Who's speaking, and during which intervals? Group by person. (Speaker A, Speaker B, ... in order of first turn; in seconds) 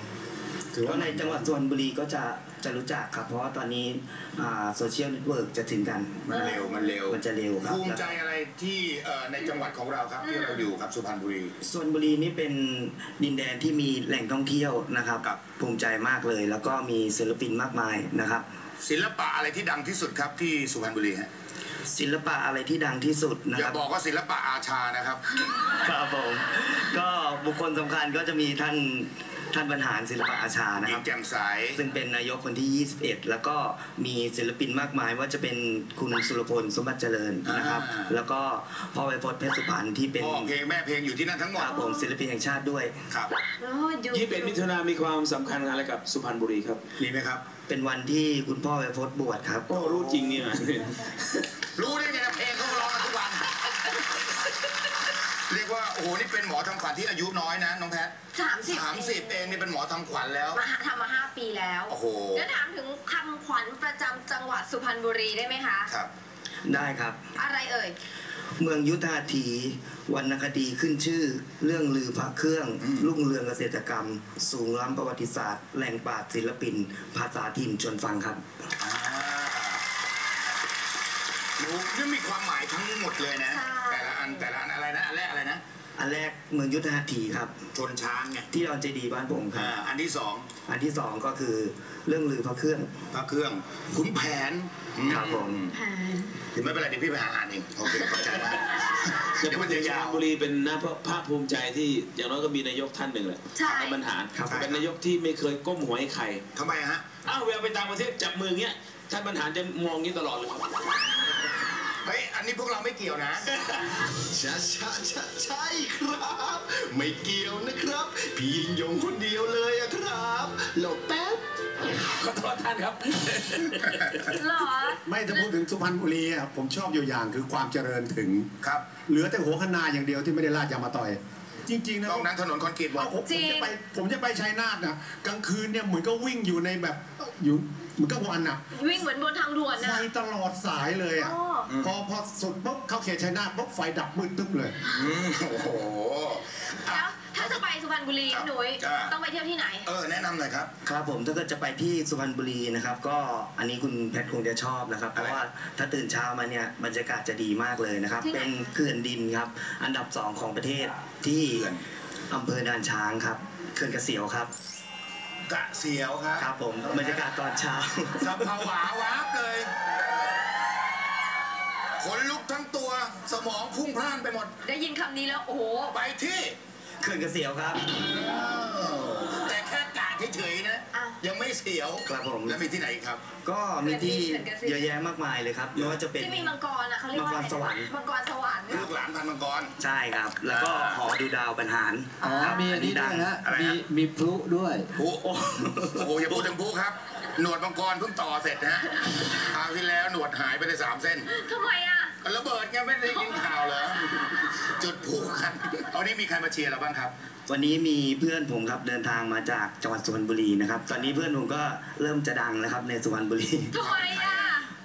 Speaker A: 0.7-1.5, 125.1-128.5, 129.0-132.3, 132.9-138.6, 139.8-144.8
Speaker B: 0.8-6.5, 7.1-8.2, 11.6-18.4, 21.9-23.8, 25.6-31.1, 31.8-40.5, 41.6-43.0, 47.7-49.8, 66.6-67.2, 68.6-78.4, 86.0-87.5, 88.5-89.8, 90.7-92.9, 95.1-95.6, 104.3-104.7, 150.8-161.7, 162.3-164.5, 166.4-168.7, 177.0-177.9, 182.1-182.6, 183.4-186.5, 187.1-187.9, 189.8-193.3, 195.2-196.5, 207.5-213.8
Speaker C: 6.3-11.5, 18.8-21.3, 23.5-25.2, 30.8-31.8, 37.5-38.1, 40.2-41.8, 47.0-47.5, 49.7-50.4, 51.8-53.6, 55.5-58.1, 58.6-60.6, 61.9-62.5, 72.8-73.1, 78.8-79.8, 81.6-85.6, 87.7-88.5, 89.5-90.5, 93.1-95.7, 96.5-98.7, 99.4-100.2, 104.5-104.9, 106.5-107.1, 112.0-113.5, 128.6-129.0, 132.0-133.2, 141.7-141.9, 144.8-147.6, 148.3-149.1, 149.8-150.7, 155.2-155.4, 165.5-167.3, 168.2-169.7, 172.0-174.5, 175.9-176.6, 177.9-183.2, 185.8-186.0, 188.7-189.7, 190.5-191.0, 193.4-193.8, 195.0-195.2, 195.9-201.3, 202.2-207.1, 213.8-214.5
Speaker D: 6.3-6.9, 10.2-10.7, 41.6-42.1, 43.6-44.6, 51.9-52.8, 58.3-59.6, 60.5-65.9, 67.4-68.0, 83.5-84.5, 95.7-96.3, 103.5-104.0, 124.3-125.5, 133.2-133.8, 138.7-140.1, 141.2-141.7, 146.9-149.9, 158.2-158.7, 174.6-176.0, 180.9-181.2, 183.8-184.9, 186.2-188.9, 192.3-192.8, 201.3-202.1, 213.7-214.7
Speaker E: 44.1-46.8, 49.7-51.5, 99.4-106.4, 107.2-110.7, 122.2-124.2
Speaker F: 114.3-121.4
Speaker G: 192.2-194.9